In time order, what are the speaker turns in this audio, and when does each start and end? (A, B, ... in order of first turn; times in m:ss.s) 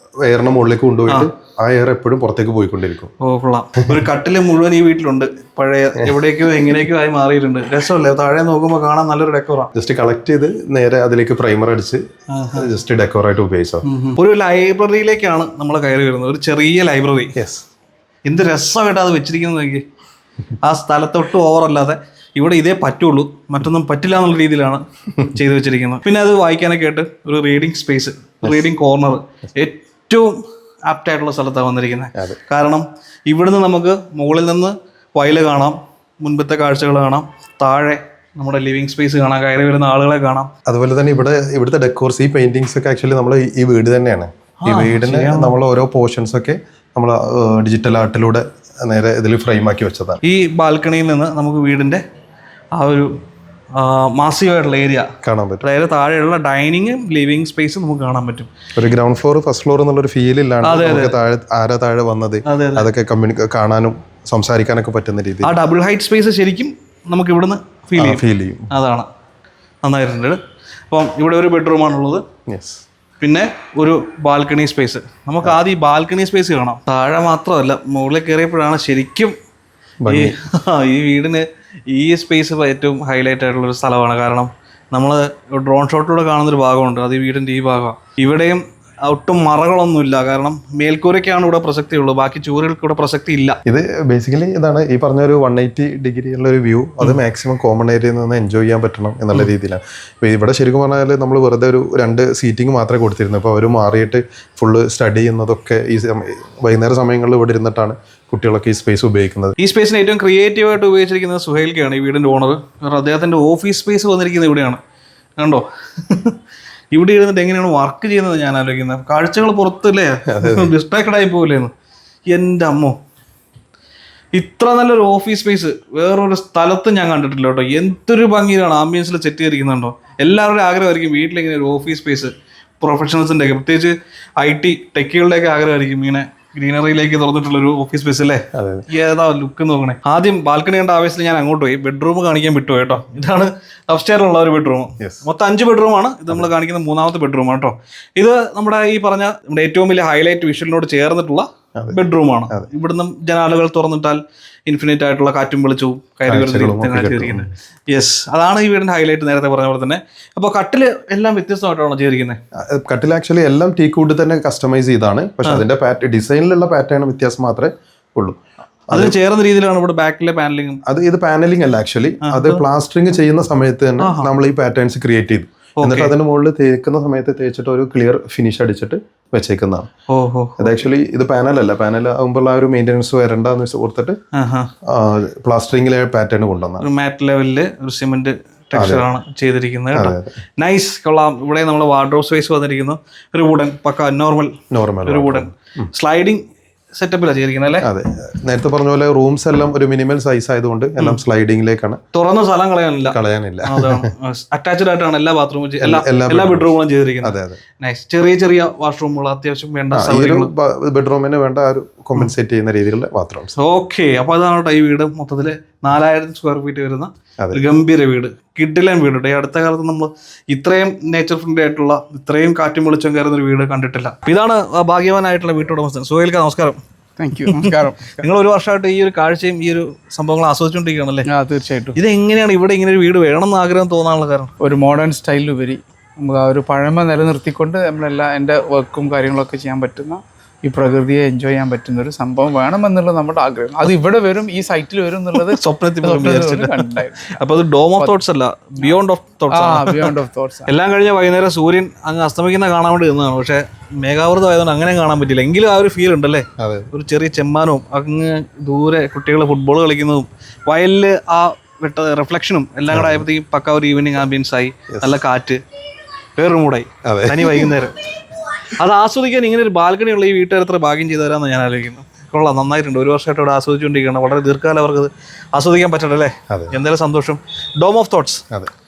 0:00.2-0:03.1 A
0:03.2-0:09.7 B
0:06.0-0:06.8 A
0:09.7-0:12.0 A
0:12.3-0:12.7 B
0:12.5-0:13.8 A
0:13.8-0:17.3 B
0:17.4-0:17.6 A
0:18.2-0:19.8 B
0:20.6-0:40.5 B
0:40.6-0:50.2 A
0:44.6-0:45.6 B
0:50.2-0:52.0 B
0:52.7-0:53.2 B
0:53.7-0:55.1 B
0:55.2-0:55.6 A
0:55.6-0:58.5 B
0:58.7-1:05.5 A
1:00.6-1:01.2 B
1:02.4-1:02.9 B
1:05.4-1:09.1 B
1:08.0-1:08.7 A
1:09.8-1:10.4 B
1:10.9-1:12.2 B
1:12.5-1:12.8 A
1:13.2-1:19.4 B
1:20.0-1:20.3 A
1:20.1-1:33.6 B
1:33.6-1:49.6 A
1:49.6-1:54.8 B
1:55.4-1:56.4 B
1:56.9-2:01.7 B
2:00.3-2:00.7 A
2:02.3-2:03.0 B
2:04.3-2:42.4 B
2:18.5-2:18.8 A
2:25.0-2:25.2 A
2:31.8-2:32.7 A
2:36.3-2:37.5 A
2:42.6-2:48.4 A
2:48.9-2:49.1 A
2:48.9-2:50.8 B
2:50.8-2:59.9 A
2:52.2-2:52.6 B
2:54.0-2:54.3 B
2:55.8-2:56.1 B
3:00.1-3:00.8 B
3:00.6-3:04.2 A
3:04.3-3:04.7 B
3:04.8-3:06.8 A
3:06.8-3:17.9 B
3:08.7-3:09.1 A
3:09.9-3:10.3 A
3:14.7-3:15.9 A
3:17.8-3:22.0 A
3:22.1-3:30.5 B
3:23.1-3:24.1 A
3:25.8-3:27.6 A
3:29.9-3:33.5 A
3:33.6-3:46.8 B
3:47.2-3:48.2 C
3:47.4-3:51.3 B
3:51.2-3:52.0 C
3:51.9-3:54.5 B
3:54.6-4:07.4 C
4:05.4-4:25.6 B
4:09.5-4:10.7 C
4:16.6-4:16.9 A
4:22.9-4:23.2 A
4:24.9-4:25.2 A
4:26.4-4:28.0 B
4:27.0-4:27.8 A
4:28.7-4:38.4 B
4:36.5-4:36.8 A